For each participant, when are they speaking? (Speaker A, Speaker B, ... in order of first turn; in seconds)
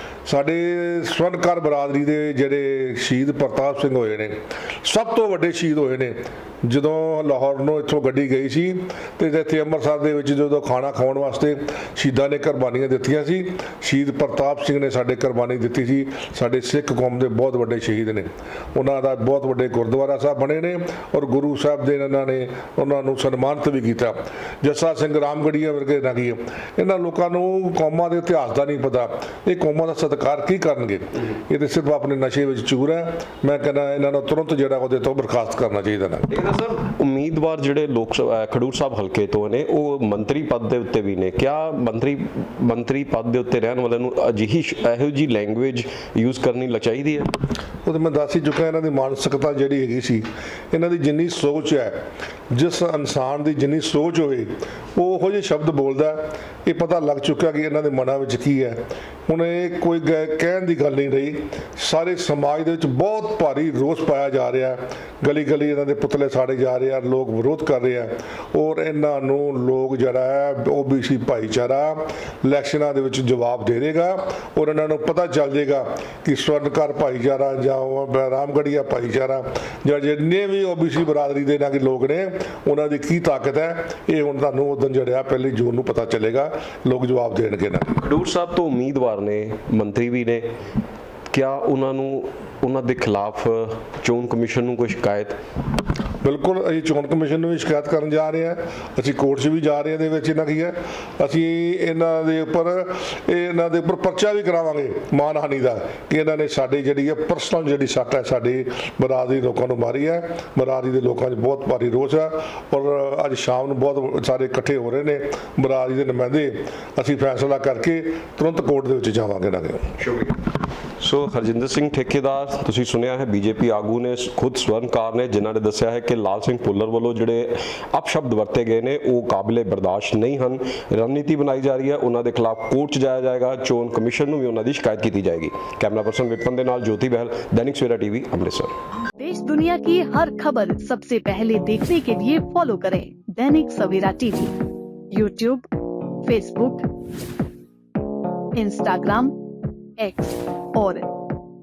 Speaker A: 0.2-36.3, 47.8-52.0, 52.5-88.0, 96.2-119.9
Speaker B: 36.3-47.3, 88.0-90.5, 91.3-95.3, 120.0-120.3, 121.0-138.7
Speaker C: 139.2-144.5, 145.1-145.7, 146.2-146.8, 148.5-149.3, 150.0-151.0